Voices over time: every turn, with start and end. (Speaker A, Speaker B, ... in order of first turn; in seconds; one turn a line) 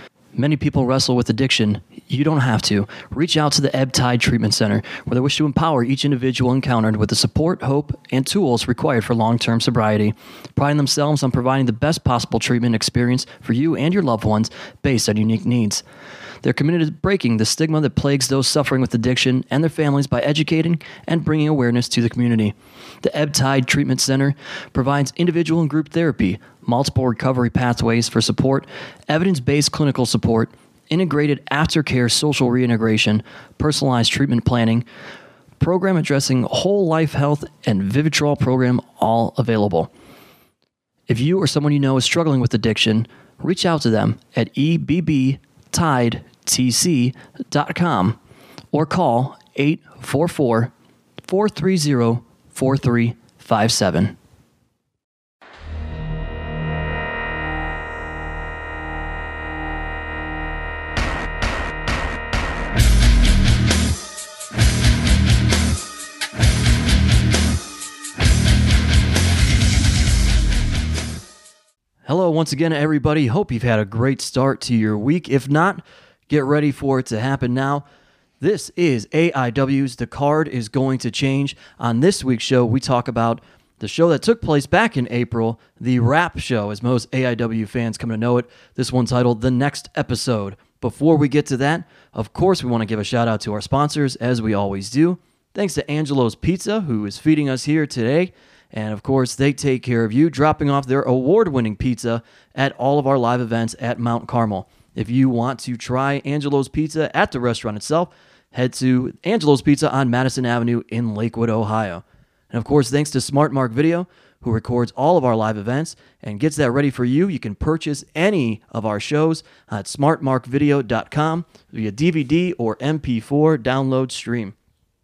Speaker A: 0.3-15.8
Speaker A: 16.4-34.8
Speaker A: 35.6-39.9
Speaker A: 41.1-48.2
Speaker A: 48.7-50.7
Speaker A: 51.3-54.1
Speaker A: 72.0-77.8
Speaker A: 78.4-124.5